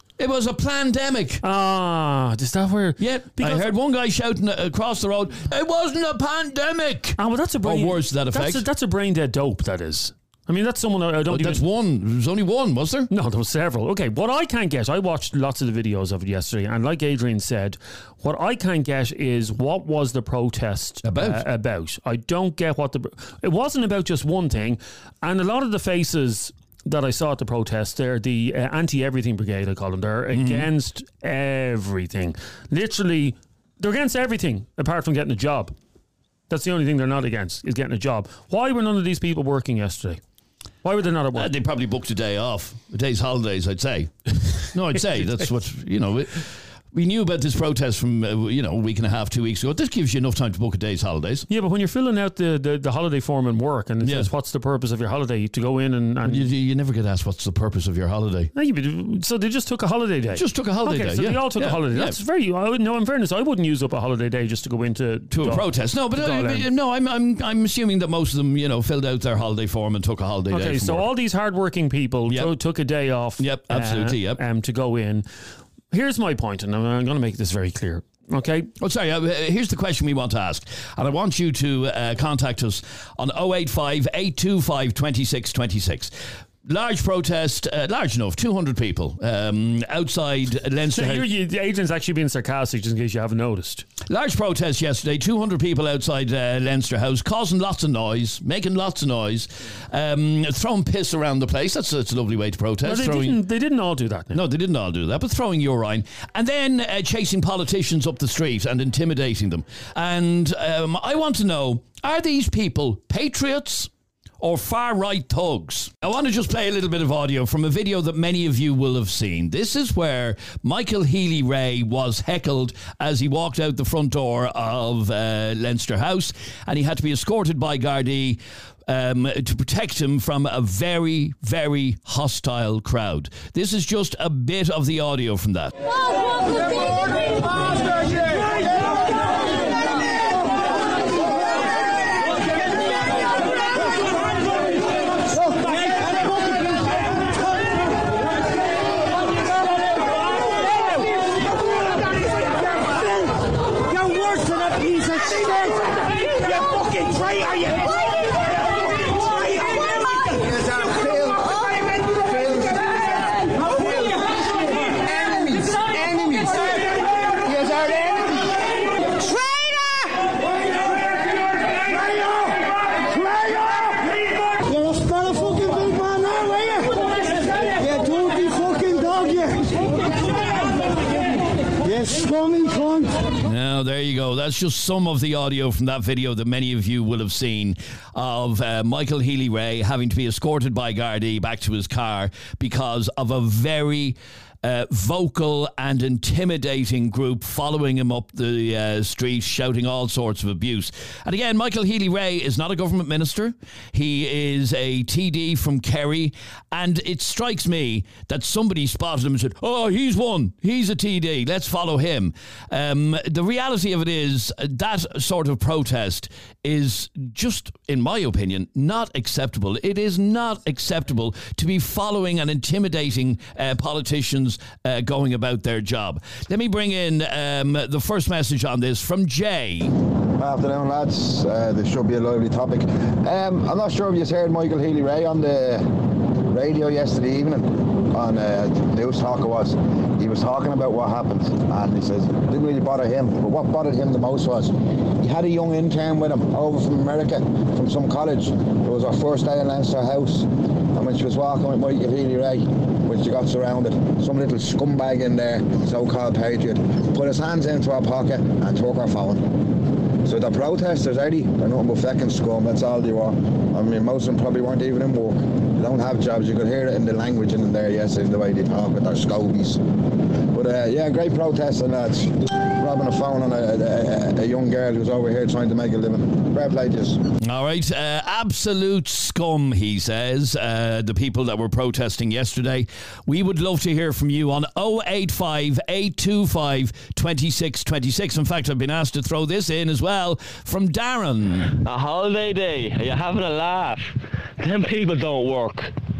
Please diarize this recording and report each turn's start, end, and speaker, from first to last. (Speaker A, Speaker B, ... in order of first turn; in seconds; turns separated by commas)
Speaker A: 0.2-1.4, Speaker B: 1.4-3.7, Speaker A: 3.0-8.6, Speaker B: 7.2-11.6, Speaker A: 11.3-13.1, Speaker B: 13.1-35.8, Speaker A: 21.0-21.4, Speaker A: 30.3-30.7, Speaker B: 36.5-40.2, Speaker B: 40.8-41.5, Speaker A: 41.4-51.5, Speaker B: 51.5-56.5, Speaker A: 54.0-54.3, Speaker A: 56.2-58.5, Speaker B: 58.5-66.7, Speaker A: 60.3-62.2, Speaker A: 65.3-71.1, Speaker B: 70.5-75.3, Speaker A: 72.3-72.5, Speaker A: 73.4-74.4, Speaker B: 75.9-78.7, Speaker A: 78.8-86.1, Speaker A: 86.7-91.3, Speaker B: 90.9-93.9, Speaker A: 94.1-103.4, Speaker B: 102.8-104.4, Speaker A: 104.3-135.7, Speaker C: 144.0-144.8, Speaker C: 145.3-146.9, Speaker C: 147.5-148.1, Speaker C: 150.8-151.1, Speaker C: 151.6-153.3, Speaker C: 153.9-157.9, Speaker C: 159.1-160.1, Speaker C: 169.3-169.6, Speaker C: 171.9-181.2, Speaker C: 181.8-183.3, Speaker A: 183.4-229.9, Speaker D: 230.4-259.7, Speaker D: 260.2-269.8, Speaker D: 270.5-277.2, Speaker A: 277.4-291.7, Speaker E: 291.7-295.9